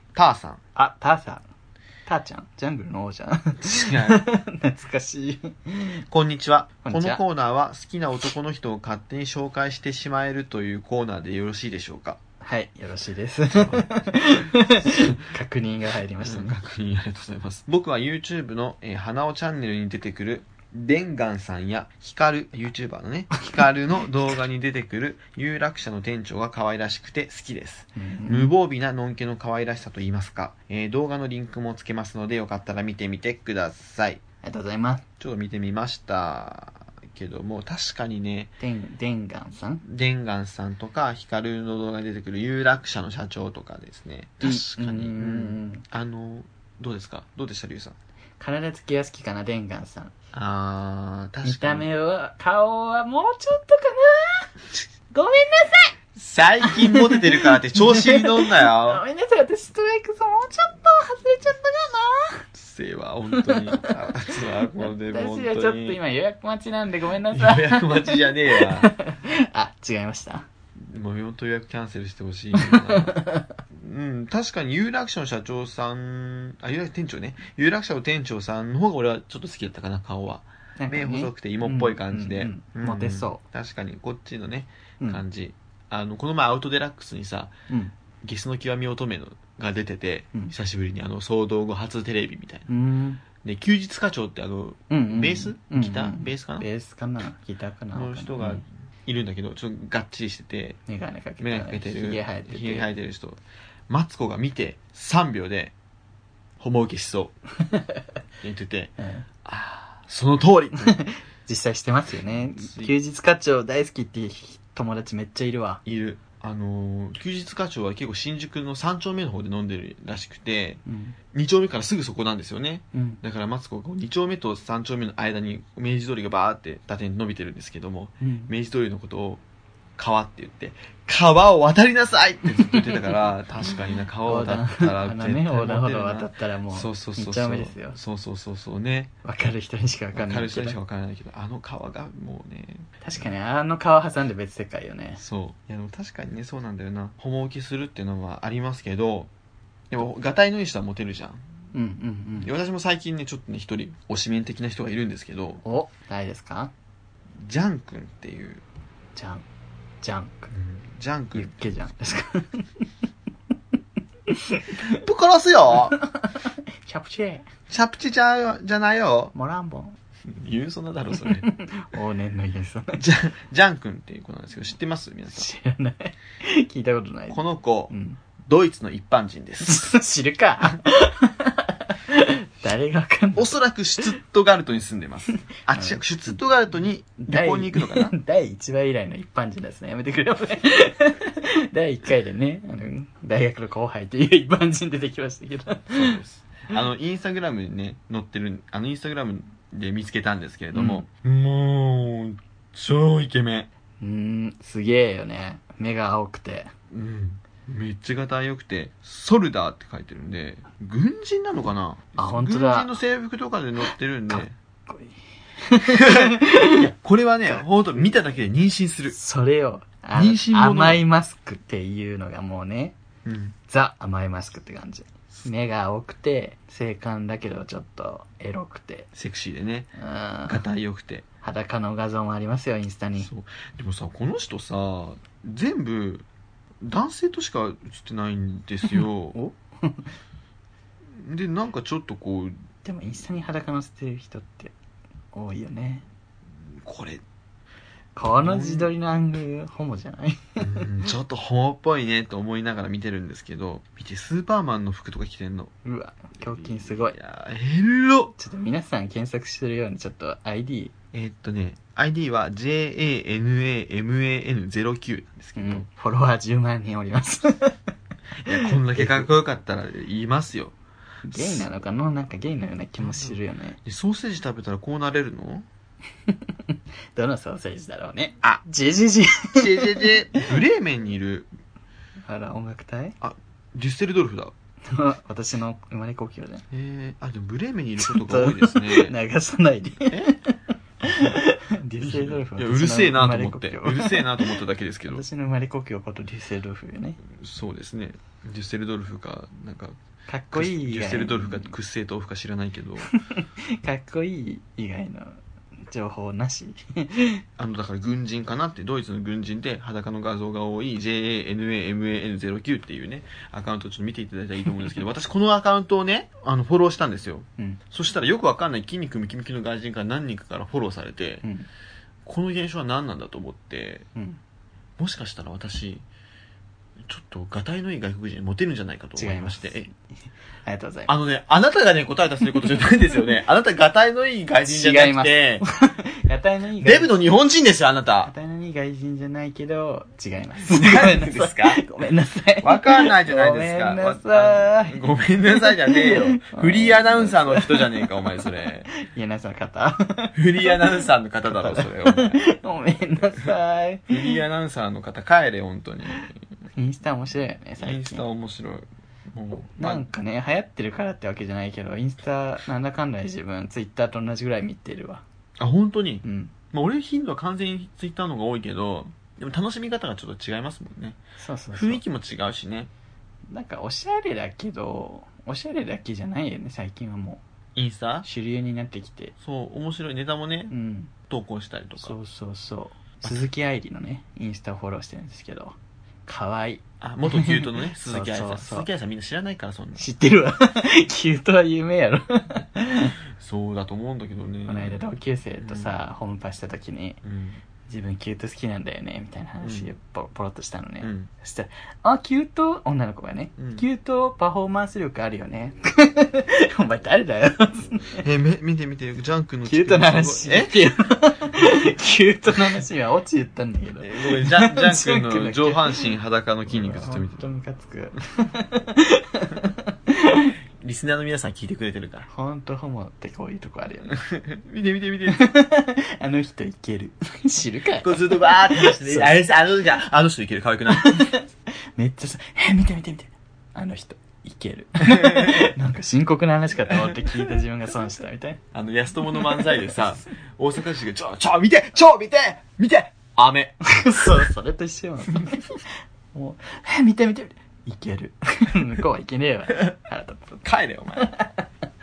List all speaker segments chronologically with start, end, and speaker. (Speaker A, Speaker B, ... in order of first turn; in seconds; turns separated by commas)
Speaker A: 0.1-0.6, Speaker B: 0.8-1.4, Speaker B: 2.1-6.0, Speaker A: 3.6-4.2, Speaker A: 6.1-12.2, Speaker B: 6.8-7.2, Speaker B: 12.4-16.6, Speaker A: 13.5-15.2, Speaker A: 16.2-34.2, Speaker B: 28.0-28.5, Speaker B: 34.4-35.0, Speaker A: 35.2-38.5, Speaker B: 38.6-39.8, Speaker A: 39.8-48.0, Speaker B: 44.4-45.8, Speaker B: 48.4-50.1, Speaker A: 50.3-51.9, Speaker B: 51.4-54.5, Speaker B: 55.1-56.0, Speaker A: 56.2-59.0, Speaker B: 56.6-62.5, Speaker A: 62.5-66.0, Speaker B: 63.3-64.0, Speaker B: 64.8-70.5, Speaker A: 67.3-68.9, Speaker A: 70.8-73.2, Speaker B: 72.5-73.6, Speaker A: 73.7-87.5, Speaker B: 80.8-83.4, Speaker A: 88.2-92.7, Speaker B: 92.7-93.2, Speaker A: 93.4-96.7, Speaker B: 94.9-98.6, Speaker A: 97.9-100.8, Speaker B: 100.9-102.9, Speaker A: 101.4-105.8, Speaker A: 106.6-107.4, Speaker B: 107.7-108.0, Speaker A: 108.4-108.9, Speaker B: 109.0-109.3, Speaker A: 109.5-111.0, Speaker B: 110.8-115.8, Speaker A: 112.3-113.0, Speaker A: 115.8-120.8, Speaker B: 120.9-121.2, Speaker A: 121.3-129.4, Speaker B: 122.9-123.2, Speaker B: 128.2-128.5, Speaker A: 130.0-139.1, Speaker B: 132.7-133.0, Speaker B: 134.2-138.0, Speaker B: 139.2-140.8, Speaker A: 140.2-142.9, Speaker B: 143.0-145.2, Speaker A: 145.2-149.3, Speaker A: 149.9-151.4, Speaker B: 151.7-152.5, Speaker A: 152.4-155.6, Speaker B: 155.6-156.7, Speaker A: 157.4-158.6, Speaker B: 159.2-159.4, Speaker B: 160.0-160.5, Speaker A: 160.5-161.6, Speaker B: 161.3-162.8, Speaker B: 164.3-165.0, Speaker A: 164.8-166.0, Speaker B: 165.8-167.4, Speaker A: 167.7-169.3, Speaker B: 169.3-170.0, Speaker A: 170.2-171.5, Speaker B: 171.1-173.0, Speaker A: 173.0-175.5, Speaker B: 175.3-178.2, Speaker A: 177.3-177.9, Speaker A: 178.4-179.9, Speaker B: 179.6-183.5, Speaker A: 183.4-188.1, Speaker B: 185.7-186.0, Speaker B: 187.2-196.2, Speaker A: 195.9-203.7, Speaker B: 200.7-201.1, Speaker B: 204.0-206.7, Speaker A: 206.9-214.5, Speaker B: 212.2-212.9, Speaker B: 214.3-216.9, Speaker A: 215.9-219.2, Speaker B: 219.1-223.0, Speaker A: 220.2-221.0, Speaker A: 223.2-223.6, Speaker B: 223.7-229.1, Speaker A: 229.2-229.9, Speaker B: 230.0-230.6, Speaker A: 230.5-231.2, Speaker B: 231.4-233.3, Speaker A: 233.2-236.3, Speaker A: 236.8-239.4, Speaker B: 238.9-240.1, Speaker A: 241.2-242.6, Speaker B: 242.8-244.7, Speaker B: 245.3-246.1, Speaker A: 246.7-247.2, Speaker B: 248.2-250.9, Speaker A: 248.3-248.9, Speaker A: 250.6-255.7, Speaker B: 255.8-257.2, Speaker A: 256.4-258.3, Speaker B: 258.4-260.9, Speaker A: 261.1-265.9, Speaker B: 265.6-267.8, Speaker B: 268.4-269.3, Speaker A: 268.5-270.8, Speaker B: 271.3-273.8, Speaker A: 271.3-271.7, Speaker A: 273.0-275.7, Speaker B: 276.3-280.4, Speaker A: 279.6-281.5, Speaker B: 282.3-283.2, Speaker A: 283.2-284.5, Speaker B: 284.9-286.6, Speaker A: 286.7-289.2, Speaker B: 288.0-294.5, Speaker A: 292.0-295.2, Speaker B: 295.1-297.2, Speaker A: 297.3-300.0, Speaker B: 300.3-301.7, Speaker A: 300.5-303.1, Speaker B: 303.1-307.4, Speaker A: 307.6-321.4, Speaker A: 322.2-324.1, Speaker A: 325.0-326.1, Speaker A: 327.1-329.9, Speaker B: 329.2-329.8, Speaker B: 330.6-331.1, Speaker A: 331.1-335.6, Speaker B: 334.7-337.1, Speaker A: 336.8-338.3, Speaker B: 338.3-350.9, Speaker A: 340.6-341.8, Speaker A: 342.6-348.9, Speaker A: 350.4-352.4, Speaker B: 351.5-354.4, Speaker A: 354.1-356.4, Speaker B: 356.8-358.2, Speaker A: 357.8-360.1, Speaker B: 359.8-365.2, Speaker A: 365.6-371.2, Speaker B: 366.2-366.5, Speaker B: 371.4-372.0, Speaker A: 371.7-372.9, Speaker B: 373.5-377.4, Speaker A: 377.8-378.3, Speaker B: 378.2-379.3, Speaker A: 379.4-380.7, Speaker B: 380.7-381.1, Speaker A: 381.3-382.1, Speaker B: 382.0-388.9, Speaker A: 387.0-390.1, Speaker B: 390.0-393.2, Speaker A: 393.4-395.1, Speaker B: 394.7-397.2, Speaker A: 395.6-396.0, Speaker A: 397.2-397.6, Speaker B: 397.9-408.2, Speaker A: 399.6-399.9, Speaker A: 401.0-401.3, Speaker A: 403.6-403.8, Speaker A: 408.2-410.8, Speaker B: 409.7-416.1, Speaker A: 414.0-417.4, Speaker B: 416.7-420.5, Speaker A: 420.8-422.3, Speaker B: 422.3-424.2, Speaker A: 424.1-425.5, Speaker B: 425.3-429.4, Speaker A: 428.0-431.3, Speaker B: 430.9-438.6, Speaker A: 435.1-435.7, Speaker A: 437.0-437.4, Speaker A: 438.7-443.8, Speaker B: 439.4-439.7, Speaker B: 443.9-445.8, Speaker B: 446.3-450.6, Speaker A: 450.6-451.4, Speaker B: 451.2-451.5